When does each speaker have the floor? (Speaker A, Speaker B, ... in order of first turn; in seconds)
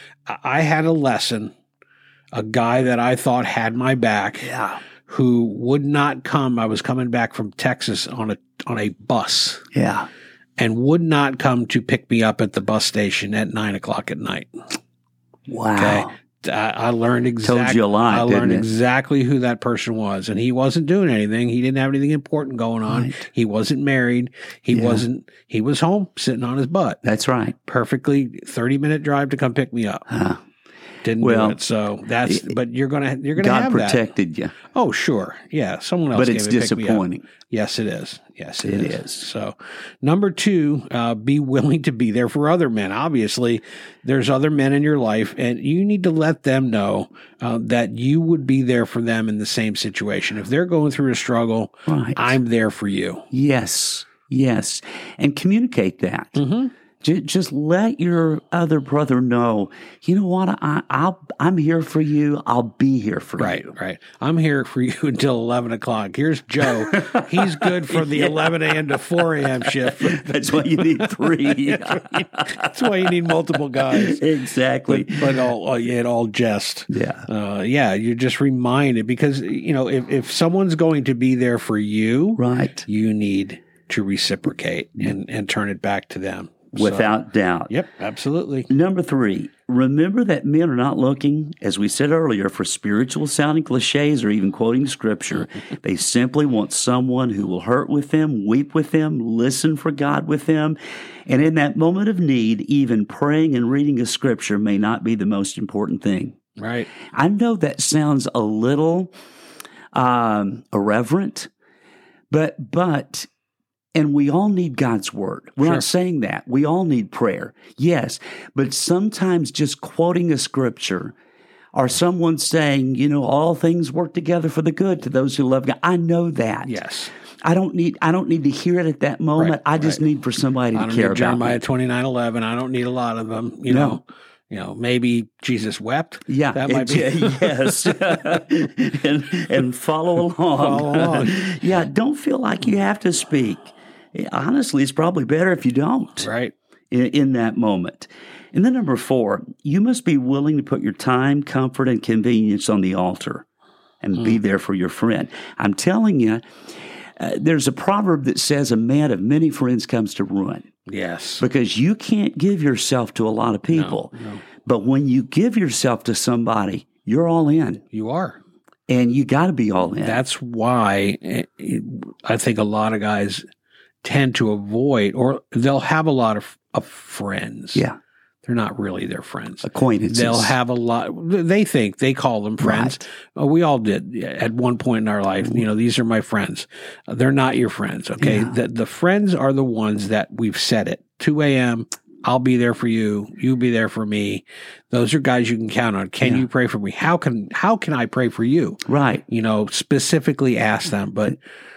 Speaker A: 0.3-1.5, 2.3-4.5, 5.1-9.6, 10.6-14.5, 15.8-27.0, 27.6-30.0, 31.0-34.0, 34.7-53.2, 56.4-56.7, 63.4-74.2, 74.8-87.1, 87.7-88.7, 106.6-106.9, 126.6-127.1, 129.3-130.0, 130.7-138.3, 140.5-141.5, 146.2-146.5, 160.9-161.4, 163.7-164.4, 167.9-168.4, 170.0-173.4, 174.0-177.8, 178.4-201.4
Speaker B: 4.4-4.8, 9.7-10.1, 15.5-16.1, 17.4-18.7, 22.9-23.2, 24.7-25.0, 27.0-27.5, 30.1-30.4, 31.2-31.6, 32.2-32.5, 33.4-34.5, 36.1-37.2, 38.6-39.2, 51.9-52.4, 53.3-56.4, 57.0-63.6, 66.9-68.7, 69.4-72.8, 73.9-75.4, 76.9-77.3, 82.4-82.8, 86.7-87.7, 88.7-106.4, 107.1-109.1, 109.9-111.5, 112.3-113.3, 113.9-121.1, 121.7-126.7, 127.4-131.6, 133.7-134.0, 136.3-146.3, 146.9-153.4, 154.0-156.4, 157.2-160.7, 161.4-164.1, 164.6-167.8, 168.9-170.2, 179.6-180.6, 182.6-183.0, 188.2-188.6, 198.8-199.2